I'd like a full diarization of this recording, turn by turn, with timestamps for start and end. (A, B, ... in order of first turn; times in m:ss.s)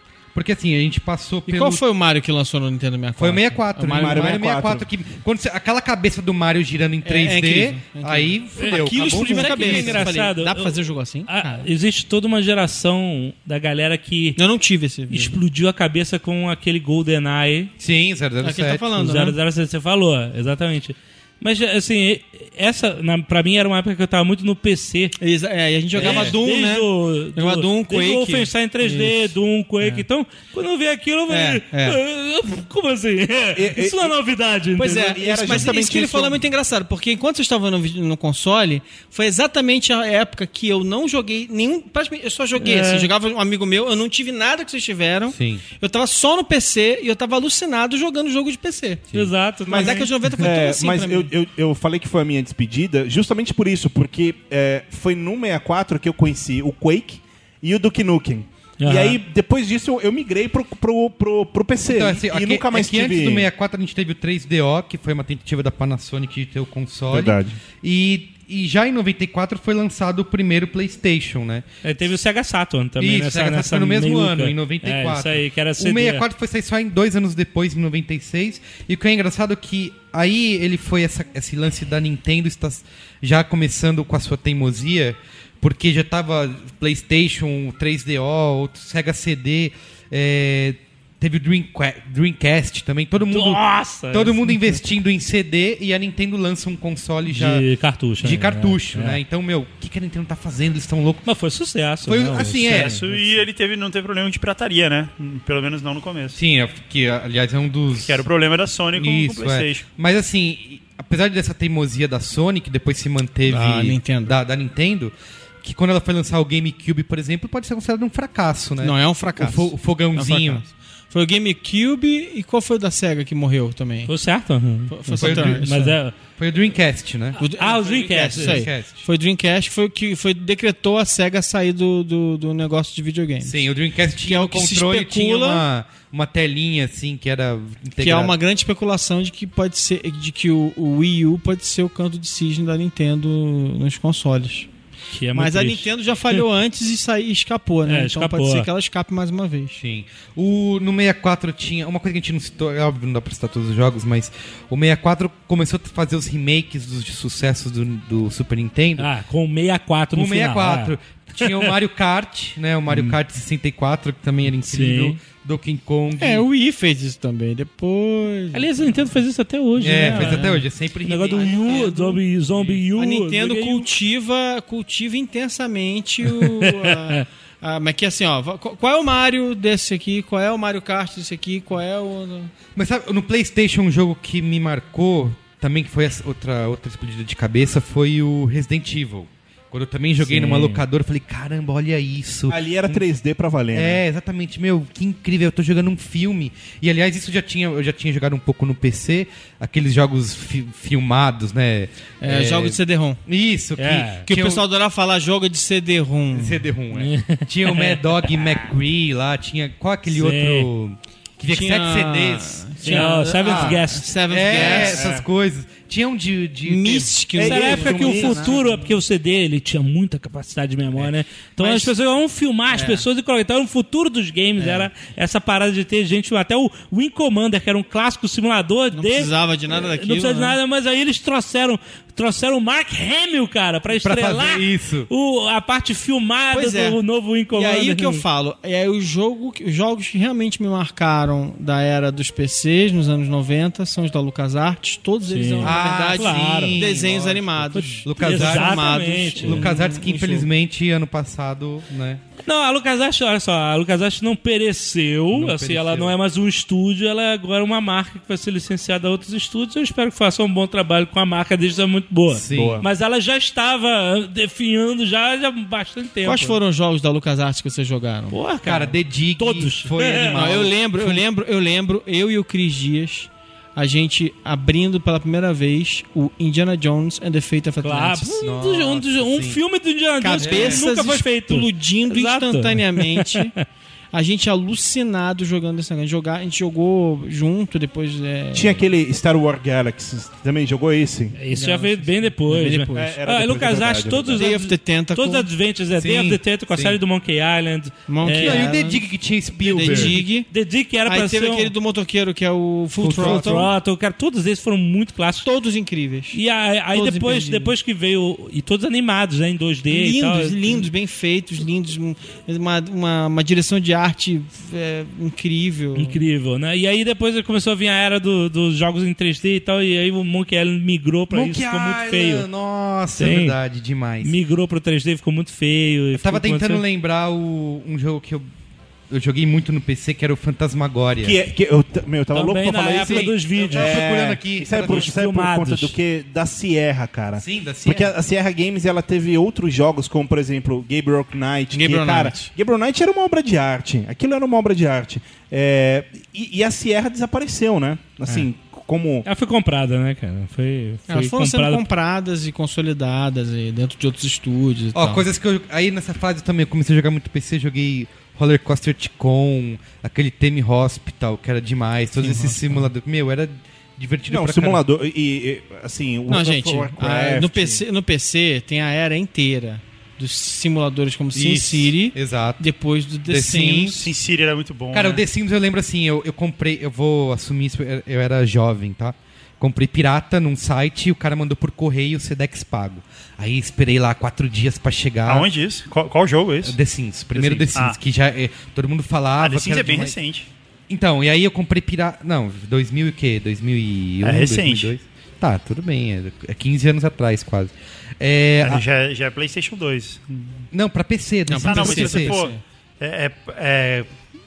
0:00.3-0:01.8 A
0:01.5-0:04.4 B
0:03.2-0:10.1 A
0:03.9-0:04.9 C
0:07.0-0:11.7 B
0:08.6-0:14.4 D
0:14.4-0:15.4 B
0:15.1-0:17.7 D
0:17.8-0:18.8 A
0:18.4-0:19.4 B
0:19.0-0:25.2 D
0:25.2-0:30.0 B
0:25.9-0:35.7 D
0:26.0-0:26.4 A
0:31.3-0:32.0 B
0:33.5-0:34.1 C
0:34.8-0:49.0 B
0:34.9-0:36.4 C
0:42.6-0:43.1 D
0:45.3-0:45.6 A
0:49.1-0:50.4 D
0:49.7-0:51.3 B
0:50.4-1:03.5 C
0:58.8-0:59.2 D
1:01.8-1:11.6 A
1:07.1-1:07.6 C
1:11.8-1:16.2 D
1:13.0-1:37.6 A
1:33.3-1:34.8 D
1:37.3-1:39.2 D
1:38.2-1:41.3 A
1:41.2-1:43.0 D
1:42.0-1:43.0 A
1:42.6-1:46.4 E
1:46.3-1:48.2 A
1:48.0-1:49.8 E
1:48.9-2:00.6 A
1:53.5-1:54.4 B
1:58.8-2:04.1 B
2:04.1-2:06.1 D
2:04.9-2:06.0 B
2:05.2-2:05.7 A
2:06.4-2:07.4 A
2:07.4-2:13.6 B
2:07.4-2:08.6 D
2:08.3-2:09.0 A
2:13.4-2:18.4 A
2:14.2-2:15.6 B
2:18.0-2:24.7 B
2:25.1-2:26.4 D
2:25.3-2:29.8 B
2:27.8-2:28.7 D
2:29.8-2:39.1 A
2:39.0-2:41.7 D
2:40.1-2:46.4 A
2:42.9-2:43.2 D
2:44.6-2:45.2 D
2:46.2-2:48.9 B
2:48.5-2:50.5 D
2:49.8-2:51.9 A
2:50.0-2:50.6 B
2:51.0-2:53.9 D
2:51.4-2:52.2 B
2:52.9-3:02.5 B
2:56.3-2:57.2 D
3:02.7-3:13.0 A
3:10.2-3:10.8 D
3:12.5-3:14.0 C
3:13.7-3:24.6 A
3:22.2-3:23.2 B
3:23.8-3:24.2 D
3:24.2-3:26.6 B
3:26.3-3:38.5 A
3:26.9-3:28.6 D
3:30.1-3:30.7 D
3:31.5-3:35.1 B
3:32.8-3:34.8 D
3:34.9-3:35.2 C
3:36.6-3:38.9 B
3:37.4-3:38.5 C
3:37.4-3:58.2 D
3:41.6-3:41.9 B
3:42.7-3:43.0 B
3:44.6-3:44.9 B
3:48.9-3:50.6 B
3:53.9-3:55.1 A
3:56.5-3:57.0 B
3:57.5-4:10.5 B
4:05.2-4:06.8 D
4:05.6-4:12.2 A
4:07.7-4:09.7 D
4:12.4-4:26.6 D
4:15.3-4:16.2 A
4:22.3-4:22.8 A
4:22.5-4:22.9 C
4:26.2-4:28.4 B
4:28.3-4:30.6 D
4:28.6-4:31.2 A
4:30.3-4:38.4 B
4:37.8-4:43.6 D
4:38.4-4:39.6 A
4:40.2-4:43.5 B
4:40.4-4:40.9 A
4:44.1-4:48.8 B
4:48.5-4:51.3 C
4:51.4-4:58.8 D
4:51.5-4:53.2 B
4:52.9-4:54.5 C
4:54.4-4:55.5 B
4:56.0-4:57.0 A
4:58.1-4:59.0 B
4:58.4-5:00.2 A
4:59.6-5:00.5 B
4:59.7-5:01.7 D
5:01.0-5:03.7 B
5:03.0-5:03.7 A
5:03.1-5:05.5 D
5:05.4-5:06.4 B
5:06.3-5:10.9 D
5:06.9-5:07.7 B
5:09.9-5:16.2 B
5:15.9-5:22.5 D
5:21.3-5:24.4 A
5:23.2-5:23.6 D
5:24.2-5:26.8 D
5:26.1-5:28.5 A
5:29.1-5:31.4 A
5:31.2-5:49.2 C
5:32.3-5:34.1 D
5:33.2-5:35.1 A
5:34.7-5:36.0 D
5:37.4-5:38.1 A
5:41.7-5:42.5 B
5:49.2-5:51.8 D
5:51.1-5:55.2 B
5:54.9-6:04.8 A
6:02.2-6:02.9 B
6:04.3-6:07.8 C
6:06.3-6:14.1 B
6:11.3-6:12.6 A
6:13.3-6:14.0 A
6:14.0-6:15.2 E
6:14.9-6:25.5 A
6:25.2-6:26.8 E
6:26.6-6:30.1 A
6:27.3-6:28.0 E
6:29.4-6:30.5 E
6:30.9-6:38.8 A
6:34.2-6:34.9 E
6:38.6-6:40.6 E
6:40.7-6:42.4 A
6:41.5-6:42.6 B
6:41.6-6:44.1 E